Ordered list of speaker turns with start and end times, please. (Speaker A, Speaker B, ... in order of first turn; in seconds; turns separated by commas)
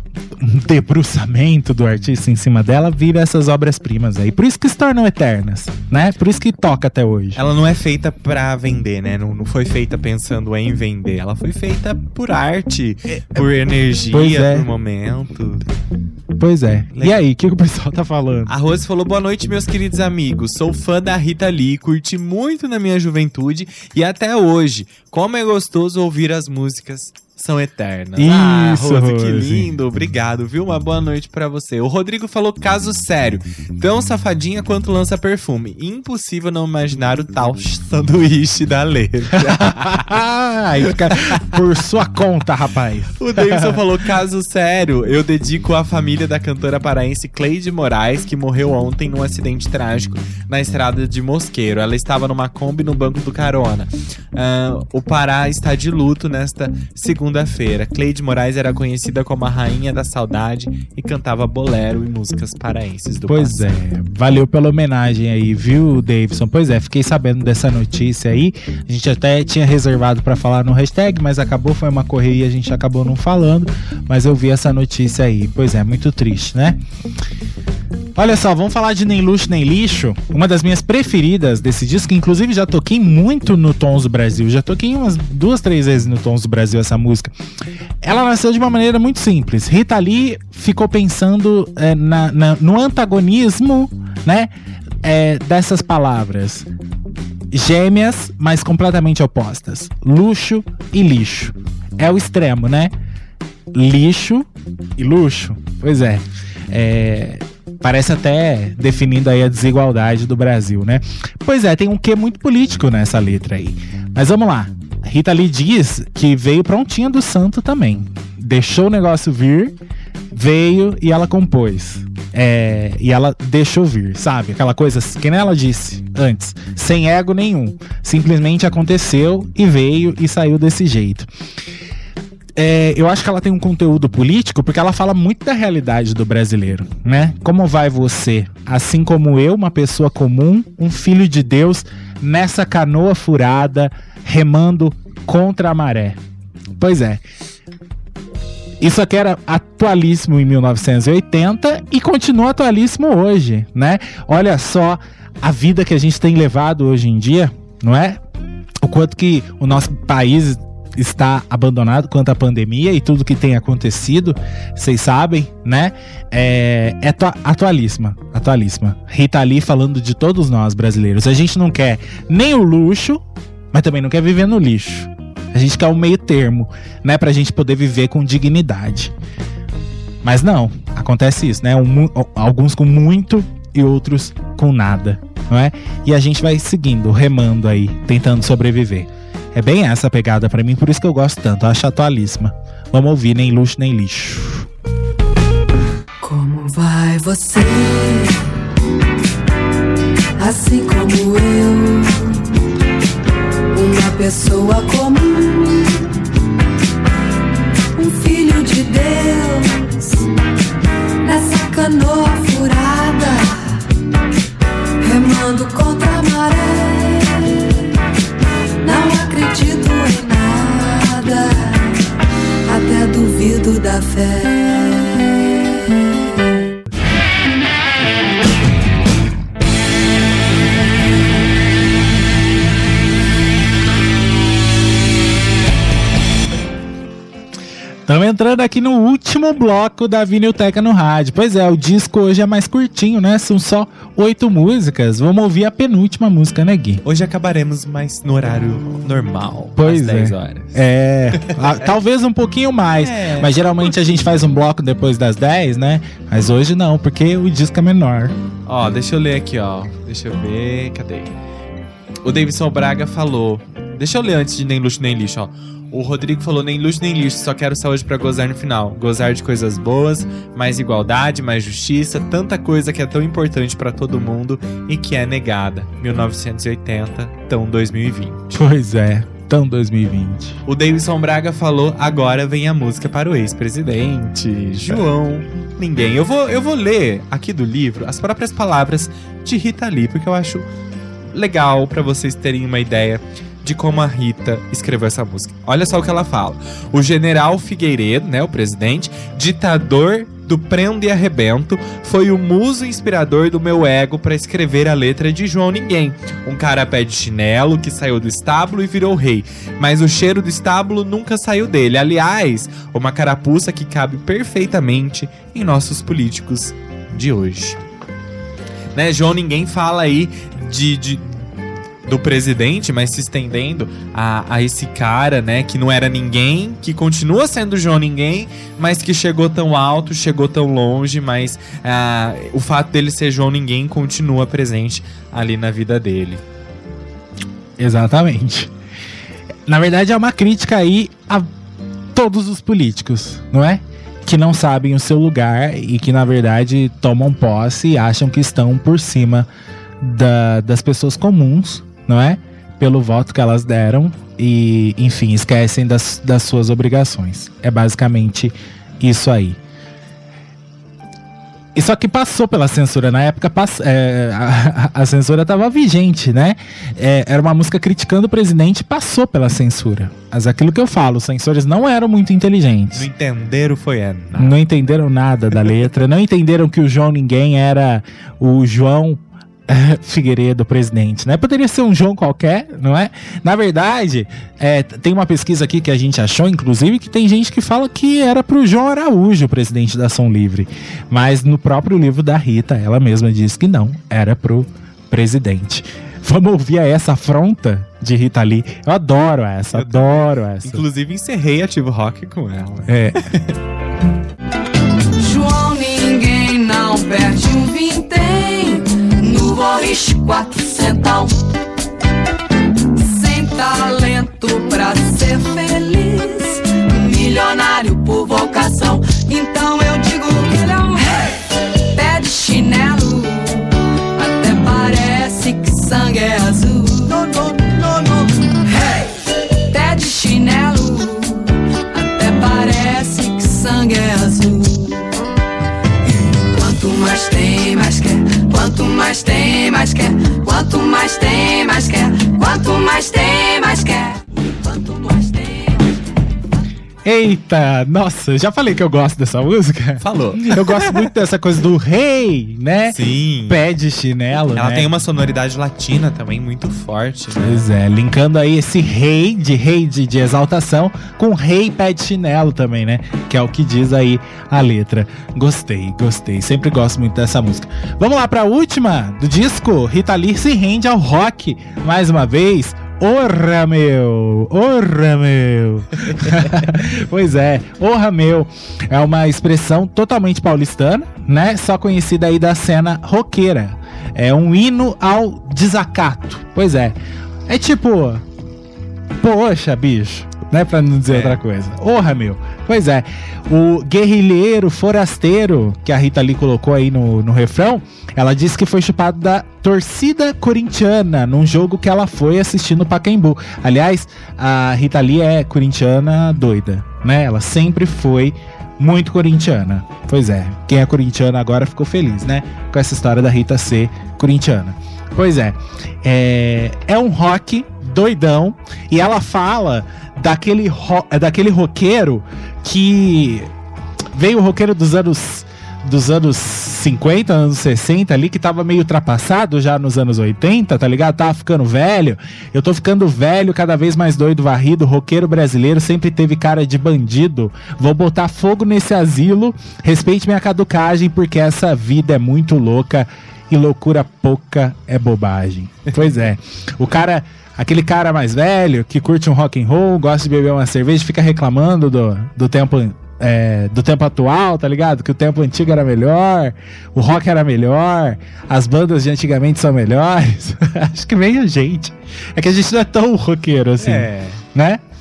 Speaker A: 0.3-7.4, Speaker B: 7.3-15.6, Speaker A: 14.1-14.7, Speaker A: 16.4-18.5, Speaker B: 16.9-17.2, Speaker B: 18.5-40.1, Speaker A: 28.2-29.7, Speaker A: 39.3-43.8, Speaker B: 40.8-41.4, Speaker B: 43.2-63.7, Speaker A: 63.3-76.8, Speaker A: 78.2-87.3, Speaker A: 88.0-94.5, Speaker A: 95.0-96.7, Speaker A: 97.5-102.9, Speaker A: 103.7-119.8, Speaker A: 120.3-131.3, Speaker A: 132.6-146.2, Speaker A: 146.8-147.2, Speaker A: 148.8-158.2, Speaker A: 158.8-179.1, Speaker A: 180.2-194.7, Speaker C: 196.2-198.5, Speaker C: 200.4-202.5, Speaker C: 203.7-206.1, Speaker C: 207.9-210.3, Speaker C: 211.2-213.8, Speaker C: 215.0-217.8, Speaker C: 218.8-222.1, Speaker C: 222.6-225.4, Speaker A: 238.1-247.0, Speaker B: 247.0-251.8, Speaker A: 249.8-258.3, Speaker B: 253.0-253.5, Speaker B: 258.7-261.3, Speaker B: 262.2-278.5, Speaker A: 278.5-280.6, Speaker B: 280.6-290.7, Speaker B: 291.3-317.8, Speaker B: 318.9-321.4, Speaker B: 322.1-336.4, Speaker A: 337.8-338.7, Speaker A: 339.7-341.5, Speaker A: 342.1-349.5, Speaker A: 350.0-359.6, Speaker A: 361.7-373.1, Speaker B: 372.9-374.6, Speaker A: 374.4-400.8, Speaker B: 399.7-403.6, Speaker A: 402.9-403.2, Speaker C: 405.2-411.4, Speaker C: 412.9-435.2, Speaker C: 436.1-446.0, Speaker A: 447.0-454.9, Speaker B: 450.0-451.1, Speaker B: 452.9-453.6, Speaker B: 454.5-457.6, Speaker A: 457.4-486.9, Speaker A: 487.5-488.2, Speaker A: 489.2-523.5, Speaker B: 491.1-491.4, Speaker A: 524.1-564.8, Speaker B: 563.8-564.4